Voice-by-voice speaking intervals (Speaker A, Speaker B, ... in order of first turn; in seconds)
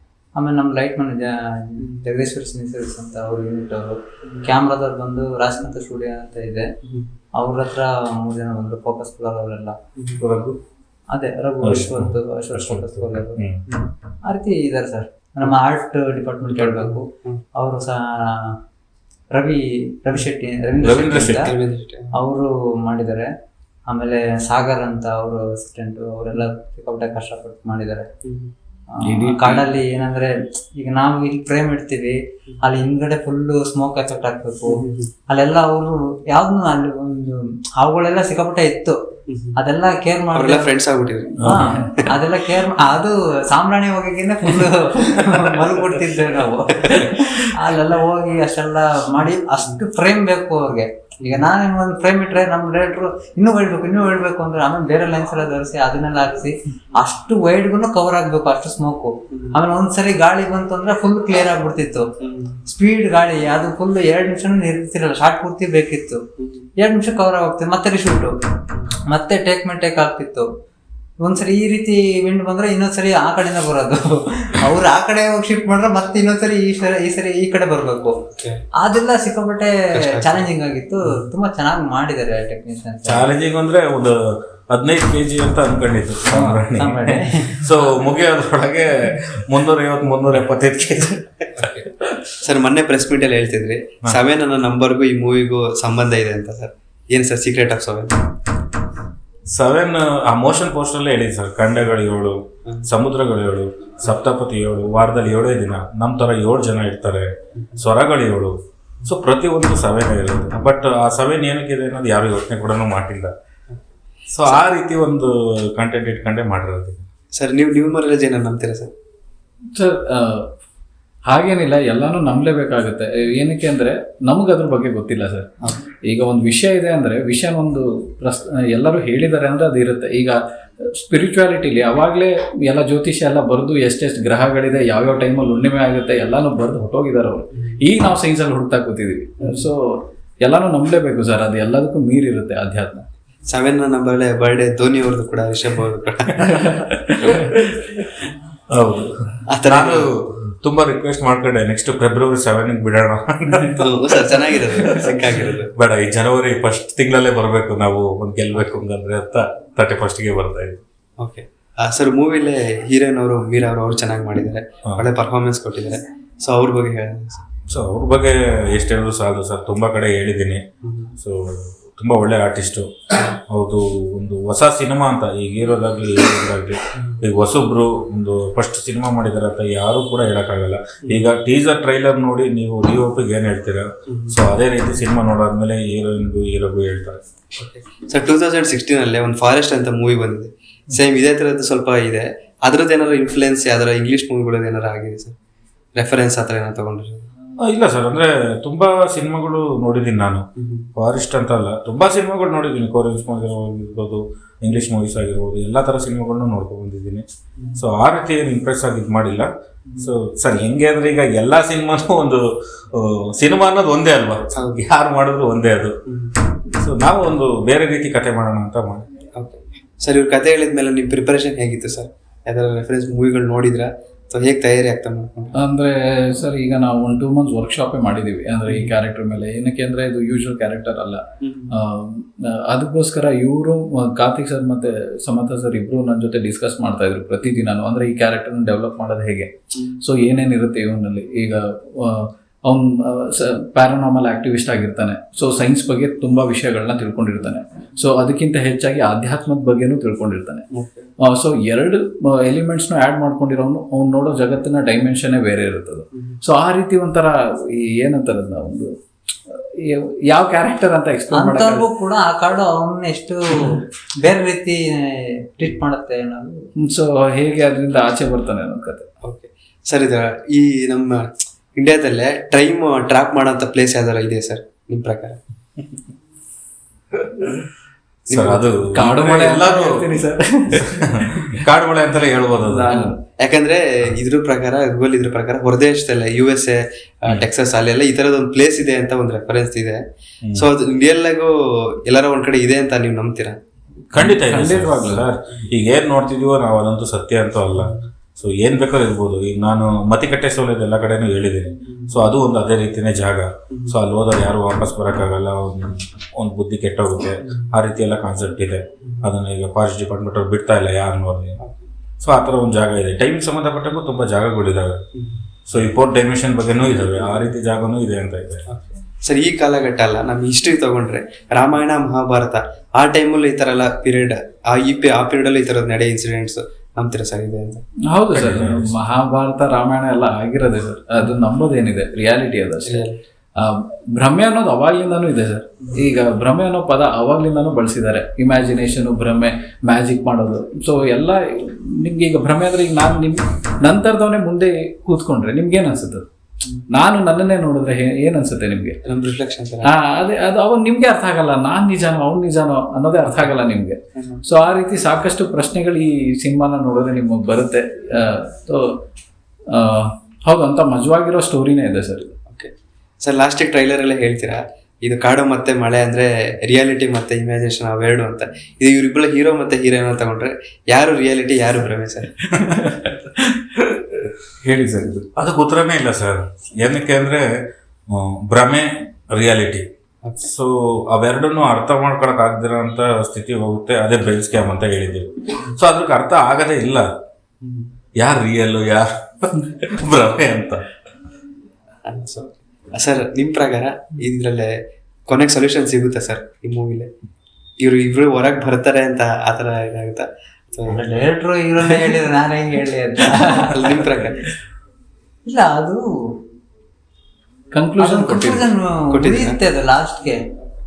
Speaker A: 0.4-6.7, 7.3-9.8, 11.1-13.4, 14.3-18.6, 19.3-21.5, 22.1-23.3, 23.9-28.1, 28.9-39.0, 39.6-40.8, 41.4-62.1, 62.7-66.2, 66.8-68.3, 69.1-70.5, 71.2-78.2, 78.8-83.3, 86.3-87.7, 261.3-266.7, 400.9-404.0, 405.4-406.4, 408.0-410.4
Speaker B: 6.8-7.1, 10.0-10.2, 16.5-17.4, 21.3-22.1, 28.2-28.5, 34.7-35.1, 39.3-39.5, 40.3-42.1, 46.8-47.1, 62.2-62.6, 66.4-66.7, 78.4-78.6, 79.9-80.5, 91.6-98.2, 107.6-107.8, 117.3-118.9, 139.4-139.7, 143.5-146.7, 149.5-150.1, 153.8-155.7, 161.2-167.4, 170.8-171.1, 177.0-177.2, 184.1-184.4, 187.6-195.3, 196.0-197.3, 200.6-200.9, 214.6-214.8, 216.1-216.3, 219.4-225.6, 228.7-229.0, 231.4-231.8, 239.8-240.0, 250.7-251.1, 269.2-275.4, 278.3-278.7, 283.4-290.0, 290.6-293.6, 297.8-298.1, 301.9-302.2, 303.7-304.0, 307.4-307.7, 309.0-309.3, 315.1-315.4, 318.7-327.8, 332.9-333.2, 349.1-349.9, 354.2-354.4, 362.5-372.3, 380.2-380.5, 387.6-387.9, 392.1-394.8, 395.3-397.1, 397.8-401.1, 403.5-404.4, 409.1-409.6
Speaker C: 10.2-10.6, 11.6-13.6, 20.8-21.5, 41.4-41.9, 83.1-91.7, 99.5-113.3, 114.3-117.1, 148.7-160.8, 167.7-170.6, 171.2-187.2, 197.6-200.4, 201.0-207.2, 207.8-216.0, 216.7-219.1, 278.3-280.1, 280.8-283.0, 294.1-311.6, 312.2-315.0, 315.7-318.7, 328.3-328.9, 375.4-379.9, 380.4-387.1, 388.2-390.8
Speaker D: 29.0-29.7, 47.0-47.3, 119.7-120.5, 121.3-125.5, 126.0-143.1, 146.4-147.7, 225.6-250.7, 251.2-258.9, 259.5-261.9, 266.8-269.1, 278.9-281.5, 282.6-283.2, 294.2-295.2, 328.1-346.3, 346.9-349.0, 349.9-359.0, 359.7-362.4, 372.4-375.3, 407.7-408.7